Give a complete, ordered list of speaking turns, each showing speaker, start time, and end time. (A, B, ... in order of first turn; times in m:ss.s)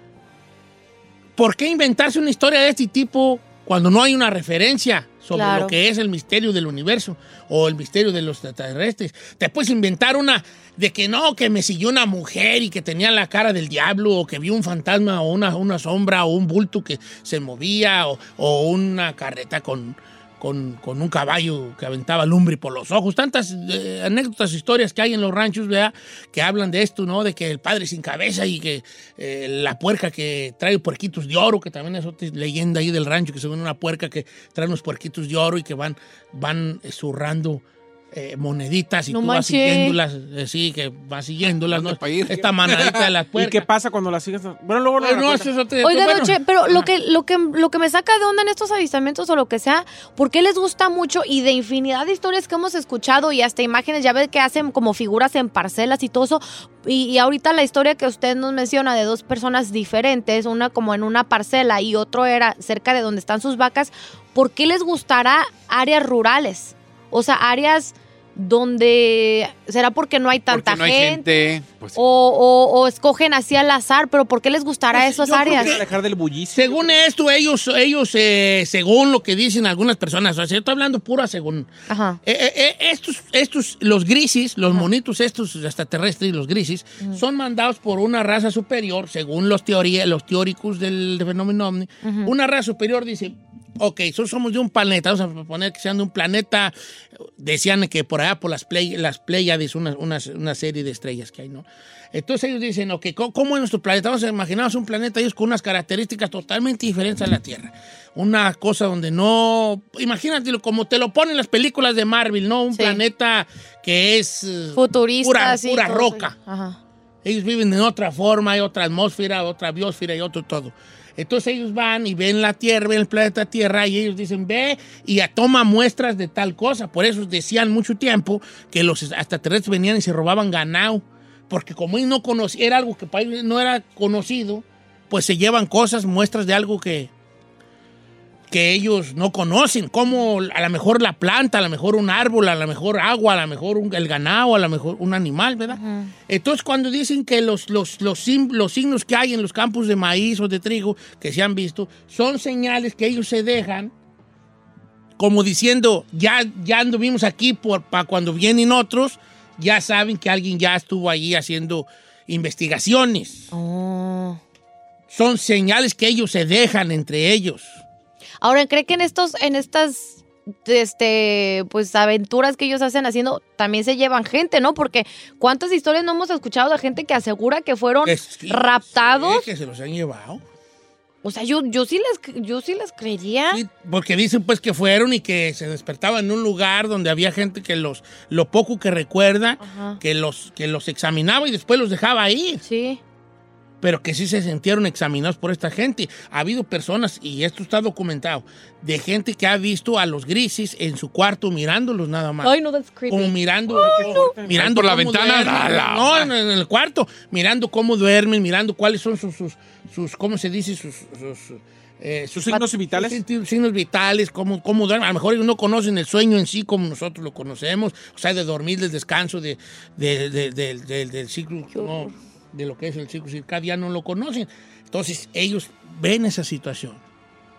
0:01.4-0:43.6 A
0:05.3-0:05.7 B
0:39.1-0:40.0 B
0:41.7-0:43.1 C
0:43.3-0:45.5 D
0:45.0-0:46.9 A
0:45.8-1:11.3 B
1:10.5-1:12.0 C
1:11.9-1:15.8 B
1:14.9-1:16.8 D
1:15.2-1:15.8 A
1:16.5-1:21.7 A
1:21.9-1:22.2 B
1:22.2-1:36.7 A
1:32.0-1:32.3 B
1:37.4-1:56.3 A
1:52.7-1:53.0 B
1:54.7-1:56.8 B
1:57.2-2:17.1 A
2:18.5-2:33.9 A
2:25.7-2:26.1 B
2:35.2-2:43.5 A
2:43.5-2:44.4 B
2:45.1-2:47.8 A
2:48.4-2:59.5 B
2:58.0-3:00.4 A
3:01.2-3:03.6 B
3:03.5-3:12.6 A
3:09.6-3:10.0 B
3:12.6-3:13.0 B
3:13.8-3:22.5 A
3:22.4-3:24.3 B
3:23.1-3:47.0 A
3:23.7-3:24.5 D
3:24.5-3:26.3 C
3:32.3-3:33.2 D
3:41.7-3:42.1 B